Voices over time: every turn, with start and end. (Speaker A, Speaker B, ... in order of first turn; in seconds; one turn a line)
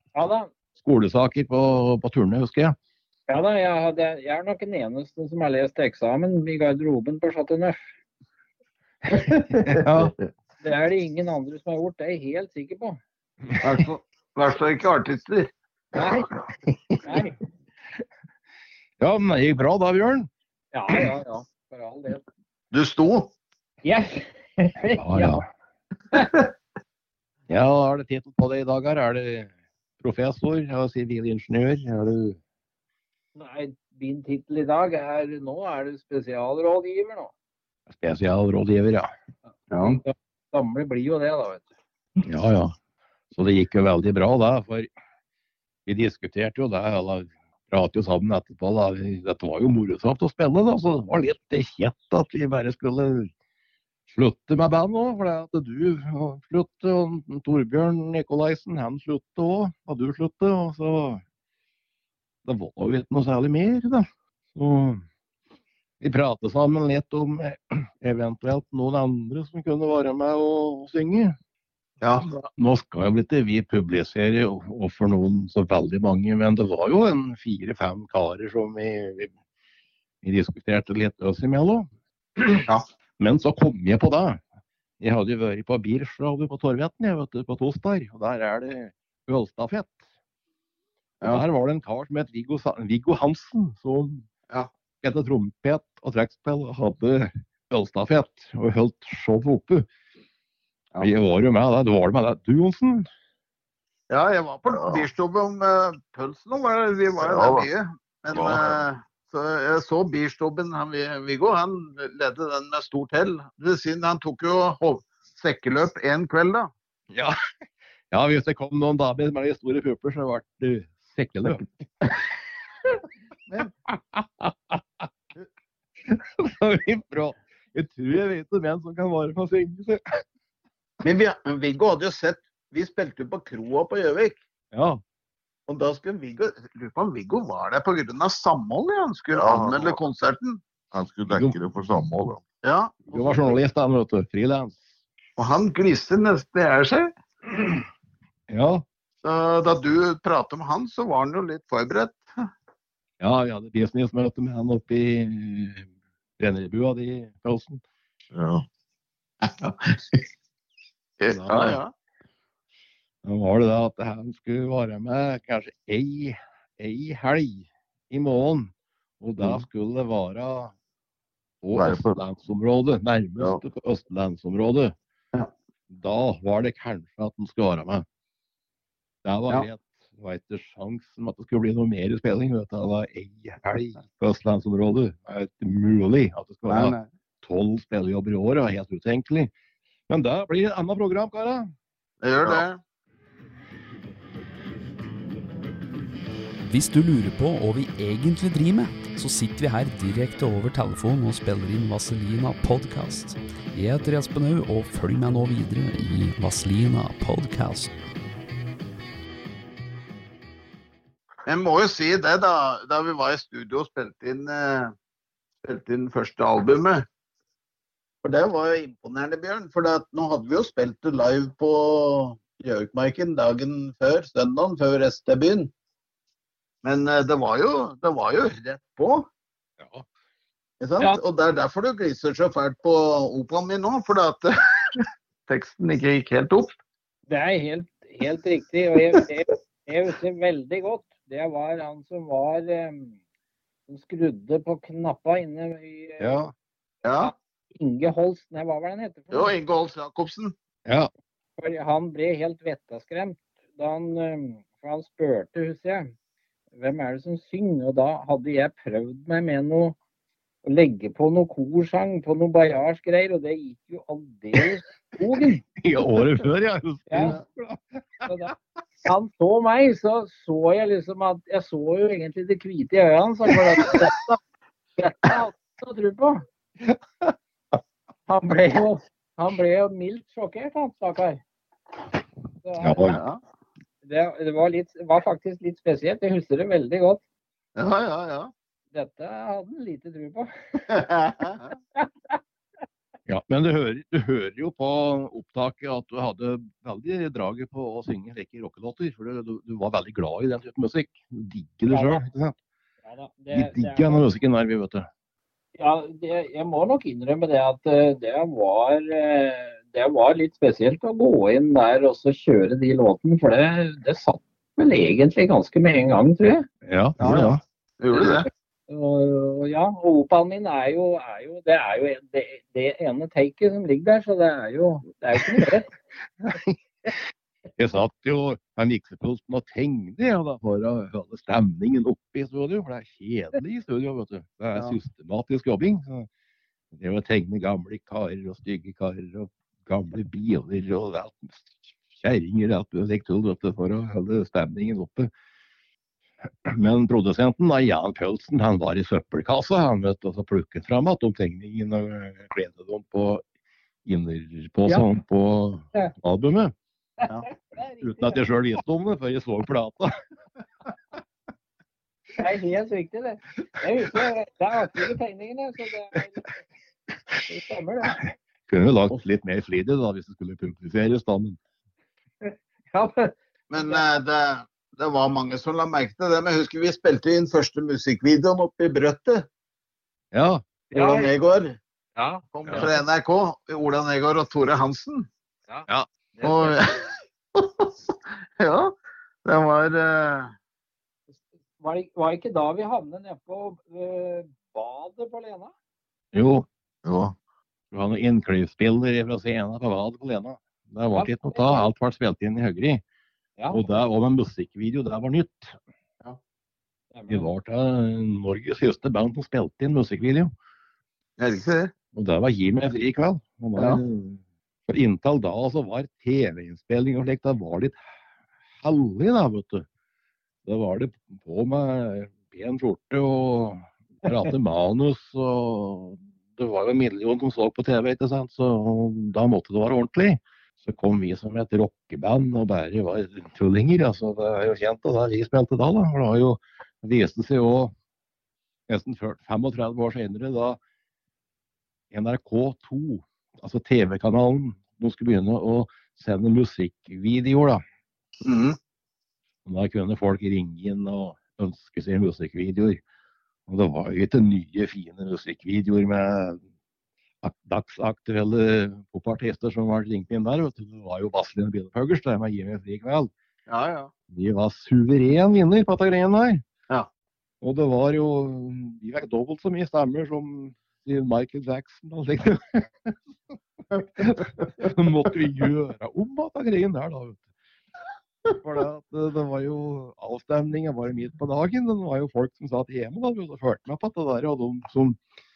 Speaker A: 0.1-0.5
Speaker B: 0.8-2.8
Speaker A: 3.3-7.9
Speaker C: 9.1-10.1
Speaker B: 9.7-10.1
Speaker A: 10.6-13.0
Speaker C: 13.6-15.5
Speaker A: 15.9-16.3
Speaker A: 17.0-17.4
Speaker B: 19.0-20.3
Speaker A: 20.7-22.2
Speaker C: 22.7-23.3
Speaker A: 23.8-25.4
Speaker B: 25.0-25.4
Speaker C: 26.1-26.5
Speaker B: 27.5-32.4
Speaker A: 33.4-37.3
Speaker B: 37.9-39.1
Speaker C: 39.7-40.0
Speaker A: 39.8-41.7
Speaker B: 42.2-42.8
Speaker B: 43.3-44.9
Speaker B: 45.9-53.3
Speaker B: 54.1-61.2
Speaker B: 62.5-65.0
Speaker B: 66.0-71.4
Speaker C: 72.0-72.3
Speaker B: 72.3-79.3
Speaker B: 80.2-81.9
Speaker B: 83.2-84.4
Speaker B: 85.0-90.0
Speaker B: 91.3-94.3
Speaker B: 95.0-99.9
Speaker B: 101.0-103.1
Speaker C: 104.1-116.7
Speaker D: 104.7-105.1
Speaker D: 107.2-107.7
Speaker D: 108.3-108.8
Speaker B: 117.1-117.4
Speaker B: 118.1-121.7
Speaker B: 124.2-125.0
Speaker B: 126.0-130.0
Speaker C: 131.0-134.4
Speaker B: 134.7-135.0
Speaker C: 135.7-140.6
Speaker D: 139.3-140.0
Speaker D: 140.9-142.4
Speaker B: 141.3-141.6
Speaker C: 142.6-143.6
Speaker B: 143.1-144.8
Speaker C: 145.4-147.8
Speaker B: 148.5-148.8
Speaker C: 149.2-152.3
Speaker B: 153.2-155.9
Speaker B: 156.4-157.8
Speaker D: 158.3-158.6
Speaker C: 159.4-159.9
Speaker C: 161.2-161.9
Speaker B: 161.3-161.8
Speaker B: 163.2-170.7
Speaker B: 171.6-174.9
Speaker D: 171.7-172.2
Speaker B: 175.9-178.1
Speaker B: 179.2-189.5
Speaker C: 186.7-187.1
Speaker B: 190.1-191.7
Speaker C: 192.2-192.8
Speaker E: 196.7-207.9
Speaker C: 211.5-214.9
Speaker C: 215.6-217.1
Speaker C: 218.2-225.7
Speaker C: 226.8-229.3
Speaker C: 230.8-236.7
Speaker A: 237.3-243.2
Speaker A: 243.9-246.5
Speaker B: 246.2-246.5
Speaker C: 247.0-247.3
Speaker A: 247.2-249.6
Speaker C: 249.3-250.5
Speaker A: 251.6-256.1
Speaker A: 256.8-260.0
Speaker A: 260.6-265.6
Speaker B: 265.8-268.3
Speaker A: 267.1-267.4
Speaker A: 268.3-268.5
Speaker A: 269.1-274.4
Speaker A: 275.0-276.4
Speaker B: 276.9-277.3
Speaker A: 278.3-281.4
Speaker A: 282.6-283.2
Speaker B: 282.8-283.2
Speaker C: 283.1-283.4
Speaker A: 284.0-287.2
Speaker C: 287.8-288.5
Speaker A: 288.9-291.1
Speaker C: 290.9-291.7
Speaker A: 292.0-292.4
Speaker B: 293.3-302.6
Speaker A: 301.9-302.2
Speaker A: 303.1-304.3
Speaker B: 303.5-305.1
Speaker A: 305.8-316.7
Speaker B: 316.9-317.6
Speaker C: 317.2-318.5
Speaker A: 318.9-325.9
Speaker B: 326.4-327.2
Speaker B: 327.8-336.3
Speaker B: 336.9-345.3
Speaker B: 346.6-353.4
Speaker B: 354.1-356.7
Speaker A: 357.2-358.4
Speaker B: 358.0-360.1
Speaker A: 362.4-366.5
Speaker A: 367.5-368.2
Speaker B: 368.2-371.6
Speaker A: 372.4-374.0
Speaker C: 373.7-379.5
Speaker B: 380.3-380.6
Speaker C: 380.9-381.8
Speaker A: 380.9-381.3
Speaker A: 382.2-382.9
Speaker C: 382.5-385.3
Speaker A: 385.7-386.8
Speaker C: 386.4-387.9
Speaker C: 388.6-388.9
Speaker C: 389.4-390.5
Speaker A: 391.3-395.7
Speaker B: 396.3-396.7
Speaker D: 397.1-397.4
Speaker B: 397.9-403.0
Speaker A: 401.1-401.9
Speaker A: 403.6-403.9
Speaker B: 403.7-405.8
Speaker A: 407.1-407.5
Speaker B: 407.3-410.5
Speaker C: 411.4-411.9
Speaker B: 412.1-418.0
Speaker C: 413.8-414.0
Speaker B: 418.8-419.9
Speaker B: 420.6-437.9
Speaker B: 438.9-440.8
Speaker B: 442.1-447.8
Speaker C: 448.4-448.8
Speaker B: 449.6-453.0
Speaker B: 453.7-456.6
Speaker B: 457.4-463.3
Speaker C: 463.7-464.1
Speaker B: 464.3-466.6
Speaker B: 467.6-473.1
Speaker C: 473.9-474.9
Speaker B: 474.2-477.5
Speaker B: 478.6-485.2